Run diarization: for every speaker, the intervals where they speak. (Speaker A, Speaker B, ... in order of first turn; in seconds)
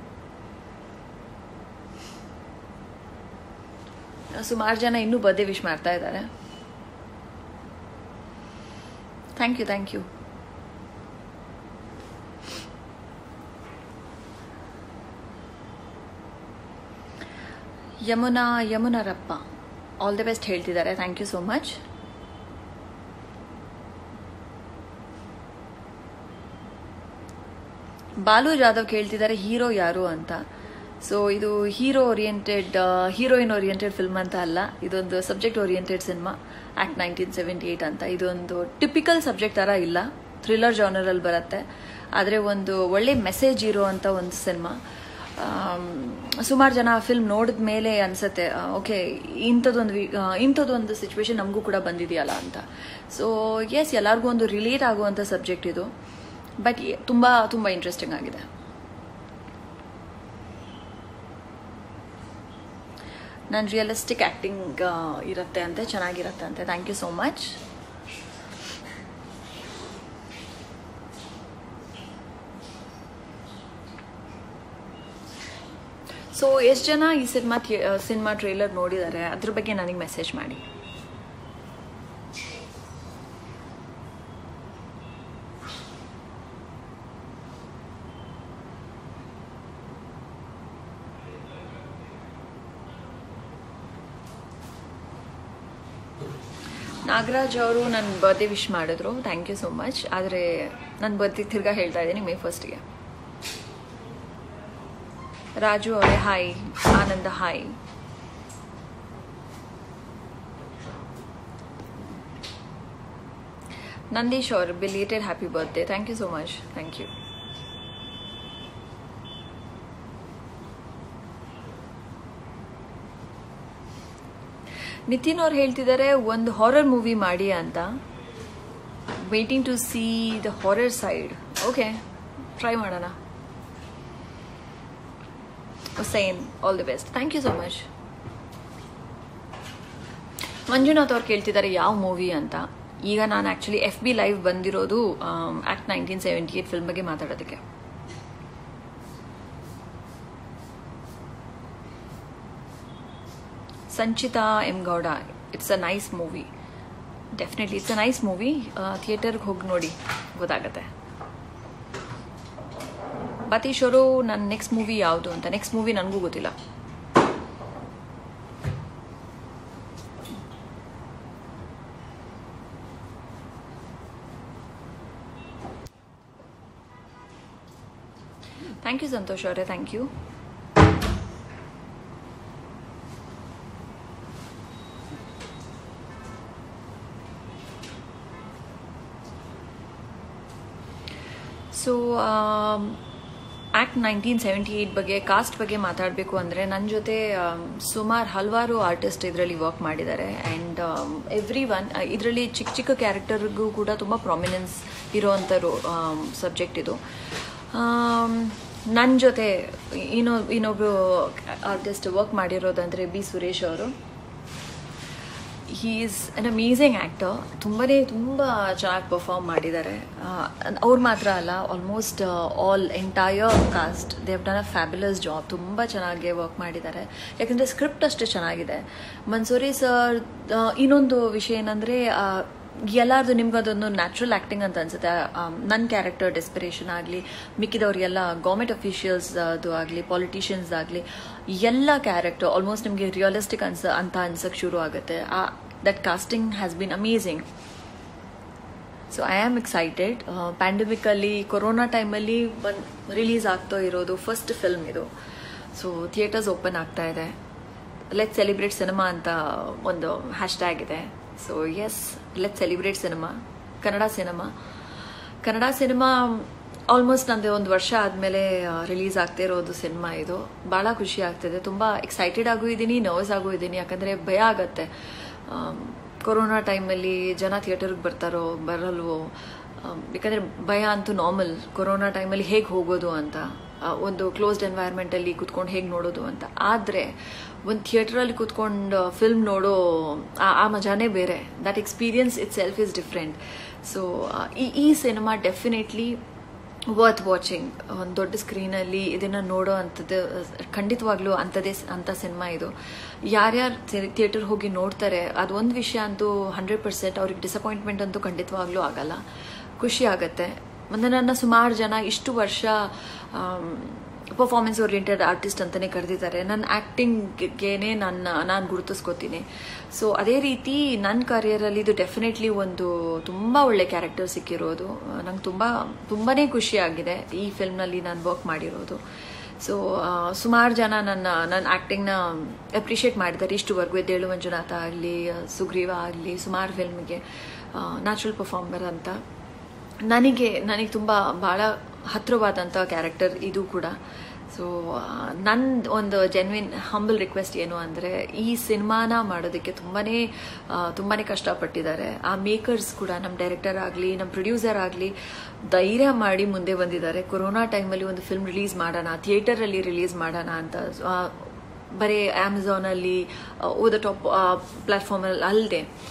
Speaker A: 4.3-6.3, 9.4-10.1, 18.0-19.4, 20.0-21.8, 28.2-30.4, 31.0-41.6, 42.1-44.8, 45.4-55.9, 56.6-58.5, 63.5-67.6, 76.3-80.6, 97.0-102.8, 105.6-107.8, 114.1-117.1, 125.1-128.0, 129.2-132.0, 132.6-133.2, 136.0-137.9, 140.7-147.6, 153.9-156.5, 157.3-160.9, 163.5-166.5, 178.8-180.1, 191.7-193.0, 193.8-213.9, 215.7-247.4, 249.1-255.1, 255.7-257.3, 258.1-264.5, 265.4-274.9, 275.5-296.2, 296.9-302.7, 303.2-309.2, 309.8-329.0, 329.6-339.2, 340.1-344.0, 344.5-355.1, 355.6-365.9